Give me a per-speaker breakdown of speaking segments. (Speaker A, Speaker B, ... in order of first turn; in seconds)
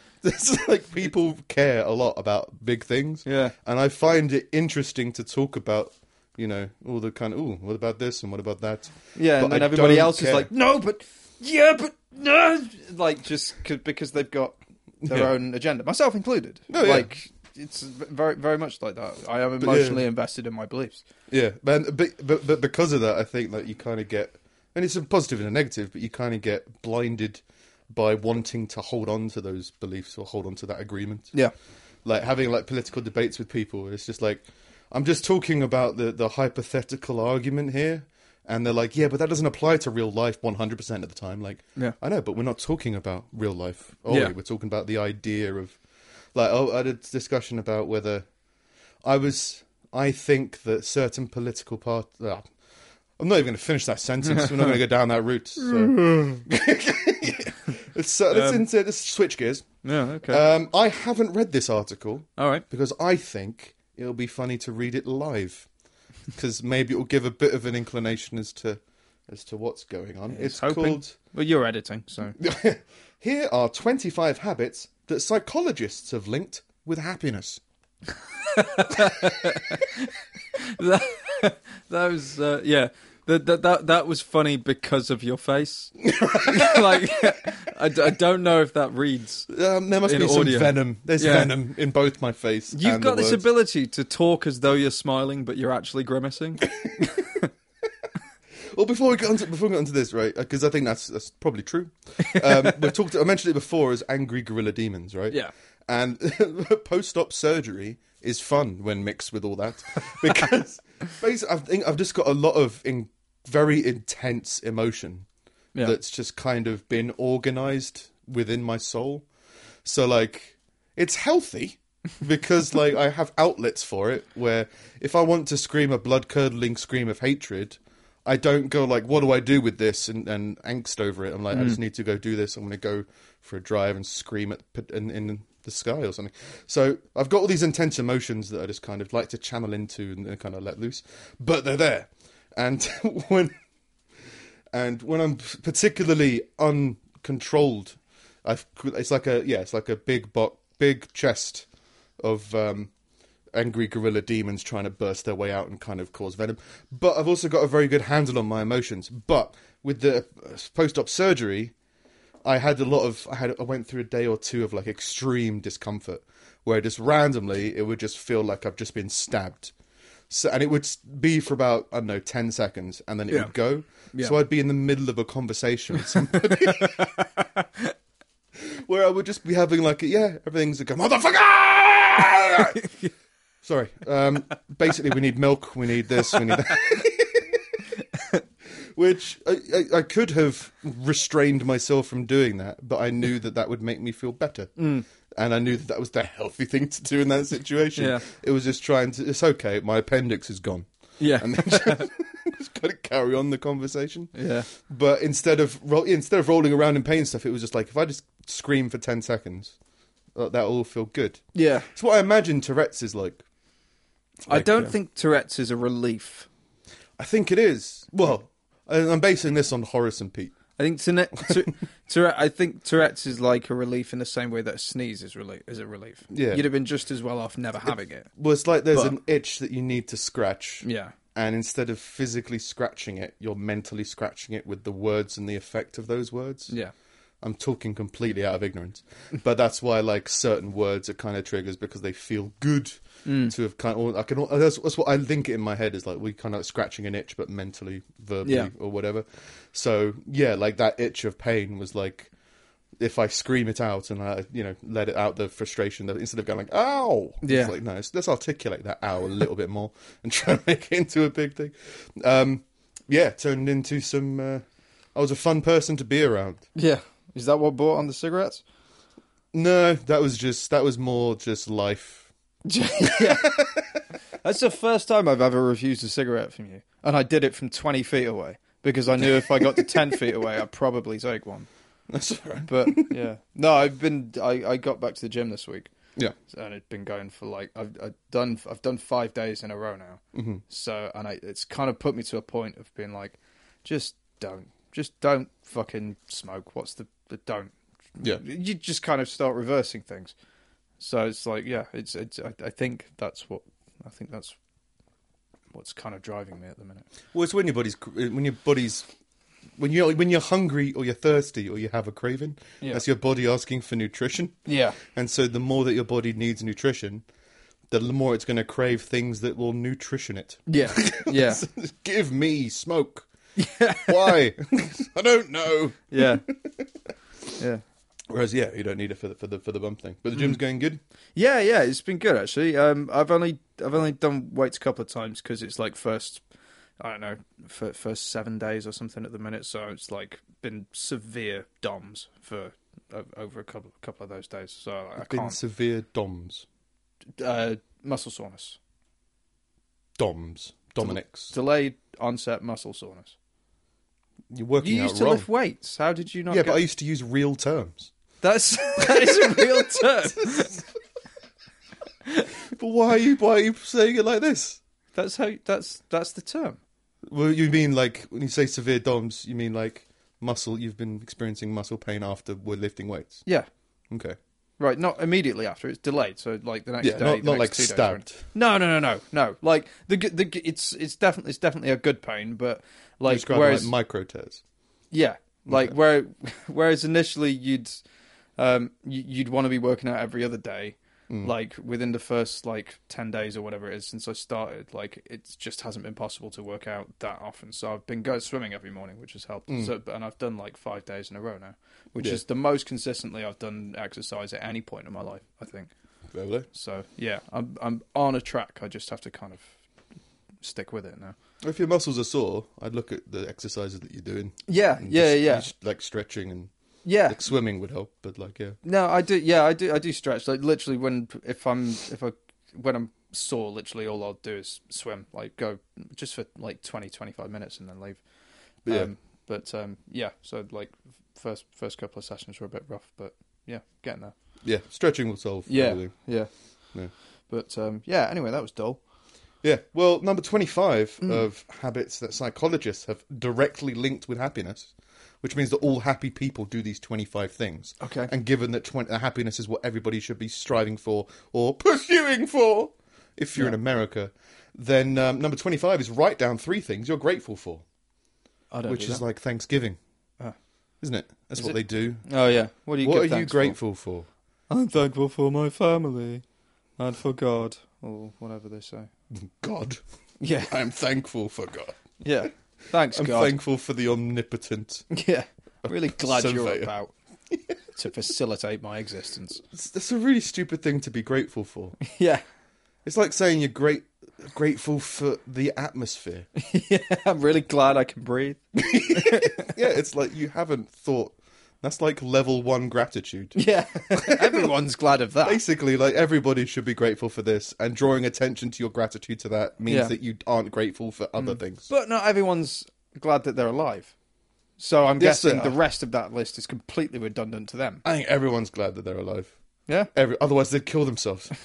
Speaker A: 0.2-10.5, 15.0-15.3, 16.7-17.1, 19.6-20.1, 21.3-31.3, 32.0-45.8, 46.3-48.2, 49.0-52.5, 53.2-59.7, 60.3-65.7, 66.3-71.2, 72.4-77.6, 86.0-87.0, 89.5-93.4, 96.7-97.2, 98.7-115.3, 115.8-119.3, 119.8-143.5, 144.7-151.7, 152.2-152.9, 153.5-161.7, 162.4-169.7, 170.3-177.1, 178.6-182.8, 183.6-187.8, 188.9-194.7, 195.3-209.8, 210.3-213.4, 214.5-214.9, 217.2-220.6, 226.3-226.7, 227.8-236.7, 237.4-252.3, 253.0-264.6, 265.1-266.6, 269.5-272.3, 273.0-274.0, 279.2-280.5, 282.1-283.2, 290.3-290.6, 307.3-309.1, 309.8-317.2, 317.9-323.3, 324.1-326.9, 328.3-331.0, 345.2-346.6, 350.2-351.5, 354.5-355.5, 356.5-358.1, 359.0-360.6, 362.7-364.8, 367.3-373.4, 374.1-374.4, 377.0-378.4, 383.3-384.6, 385.7-385.9, 399.7-399.9, 406.3-406.7, 411.6-416.7, 417.3-418.8, 428.9-429.1, 434.6-436.1, 439.6-457.8, 458.9-460.0, 461.0-462.2, 463.0-464.3, 469.3-470.0, 470.7-472.0, 473.1-475.1, 475.8-476.9, 479.7-482.0, 483.1-486.5, 488.8-493.6, 494.1-494.7, 495.4-501.9, 505.2-505.8, 508.0-509.6, 510.1-511.5
Speaker B: 3.2-3.5, 9.2-21.0, 54.3-54.8, 55.6-56.4, 58.3-58.7, 59.8-60.4, 62.4-62.6, 70.3-72.4, 78.5-89.5, 90.0-91.5, 92.7-97.5, 102.2-102.7, 131.5-131.8, 176.1-177.9, 182.6-183.1, 188.2-188.4, 194.8-195.1, 198.0-198.2, 201.2-202.1, 204.3-204.7, 211.5-211.9, 214.5-216.5, 220.8-228.3, 230.8-231.1, 243.2-243.5, 248.4-248.7, 257.4-257.7, 266.8-268.6, 272.6-273.7, 274.4-281.7, 282.7-285.9, 286.5-300.3, 301.0-304.6, 305.7-307.1, 314.7-315.0, 320.7-321.6, 323.6-324.4, 326.1-326.4, 331.4-336.4, 337.0-345.6, 347.4-348.8, 351.0-353.4, 354.8-356.8, 358.4-360.8, 365.1-366.8, 374.8-383.9, 385.1-388.0, 388.6-405.9, 406.7-409.7, 410.6-411.4, 414.7-415.7, 417.1-417.4, 418.8-428.2, 428.9-434.3, 435.7-436.5, 437.5-439.0, 448.0-448.3, 458.7-459.2, 461.6-463.8, 464.7-466.4, 467.0-469.1, 470.4-470.8, 472.2-473.6, 475.1-477.1, 477.9-479.6, 482.0-482.4, 486.6-489.8, 493.6-495.6, 499.9-500.1, 501.4-504.1, 504.8-508.0